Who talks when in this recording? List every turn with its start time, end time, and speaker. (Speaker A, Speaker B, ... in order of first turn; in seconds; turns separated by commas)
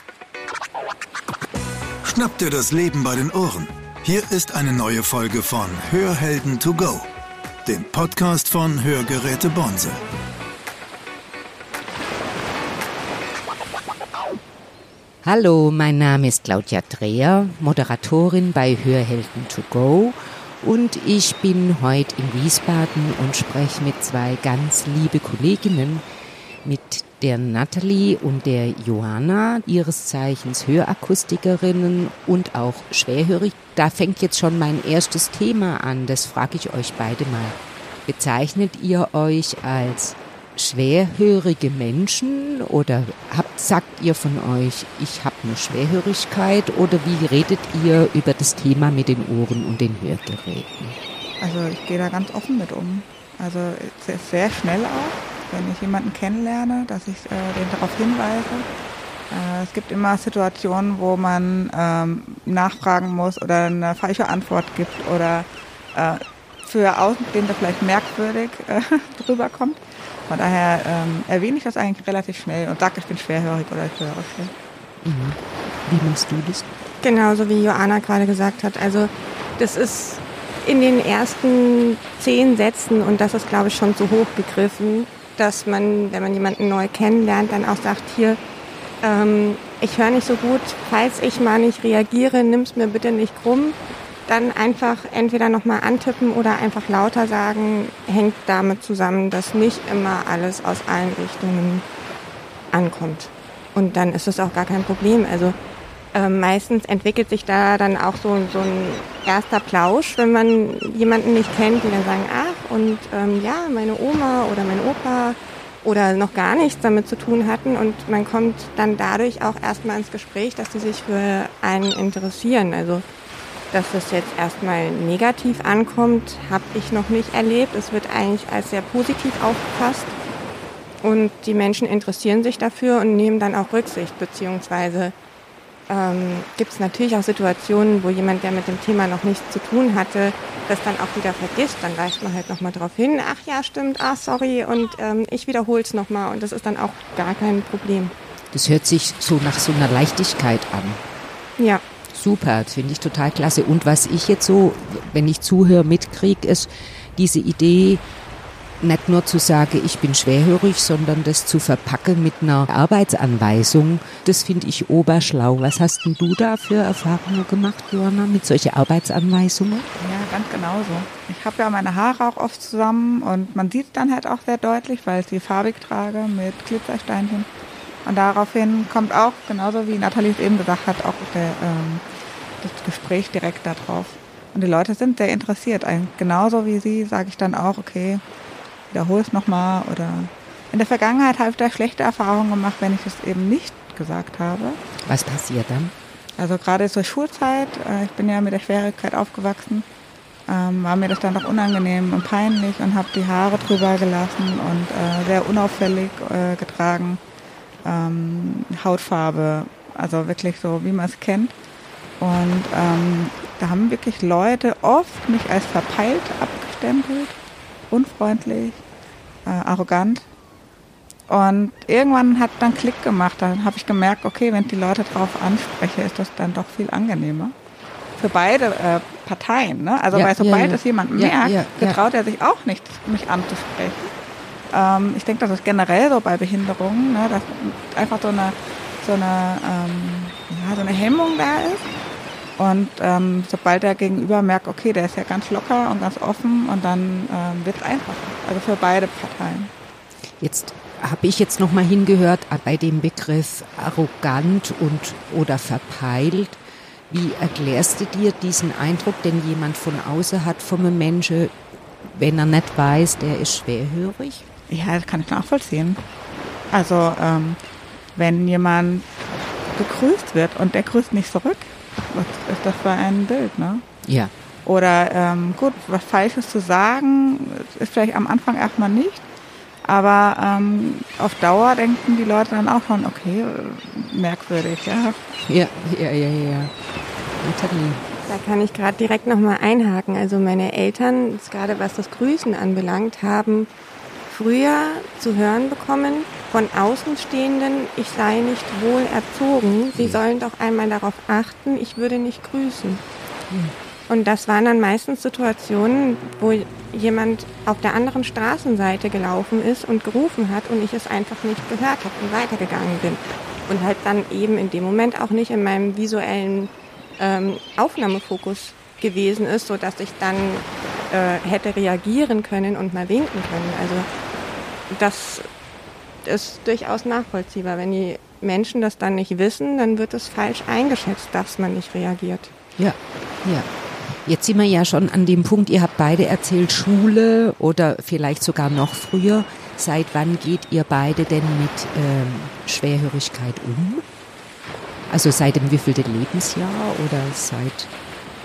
Speaker A: 2.0-7.1, Speaker A: 7.6-10.0, Speaker B: 15.2-26.0, Speaker B: 26.6-51.0, Speaker C: 51.4-58.7, Speaker C: 59.3-74.5, Speaker B: 75.0-76.7, Speaker D: 77.0-88.4, Speaker D: 89.0-101.8, Speaker D: 102.7-105.5, Speaker D: 106.1-123.0, Speaker D: 123.7-130.2, Speaker D: 131.0-135.1, Speaker D: 135.9-148.1, Speaker B: 148.5-151.0, Speaker D: 151.6-151.8, Speaker B: 152.1-158.0, Speaker B: 158.8-169.9, Speaker C: 170.0-177.5, Speaker C: 178.0-182.0, Speaker C: 182.6-188.2, Speaker C: 188.9-194.8, Speaker B: 195.0-195.9, Speaker C: 196.4-199.9, Speaker C: 200.5-207.2, Speaker C: 207.8-211.5, Speaker C: 212.2-217.4, Speaker C: 217.9-218.8, Speaker C: 219.4-220.2, Speaker C: 221.3-227.5, Speaker C: 228.2-234.1, Speaker B: 230.1-232.0, Speaker C: 234.7-241.9, Speaker C: 242.6-249.7, Speaker B: 250.4-261.5, Speaker B: 262.0-264.5, Speaker C: 264.7-266.0, Speaker C: 266.7-267.6, Speaker C: 268.1-269.1, Speaker C: 269.7-273.8, Speaker B: 274.0-274.3, Speaker C: 274.6-279.2, Speaker C: 279.9-285.2, Speaker B: 285.4-286.7, Speaker B: 287.4-288.1, Speaker D: 288.3-293.7, Speaker D: 294.3-303.0, Speaker D: 304.1-324.1, Speaker D: 324.9-325.4, Speaker D: 326.2-332.5, Speaker B: 332.8-344.0, Speaker B: 345.1-347.9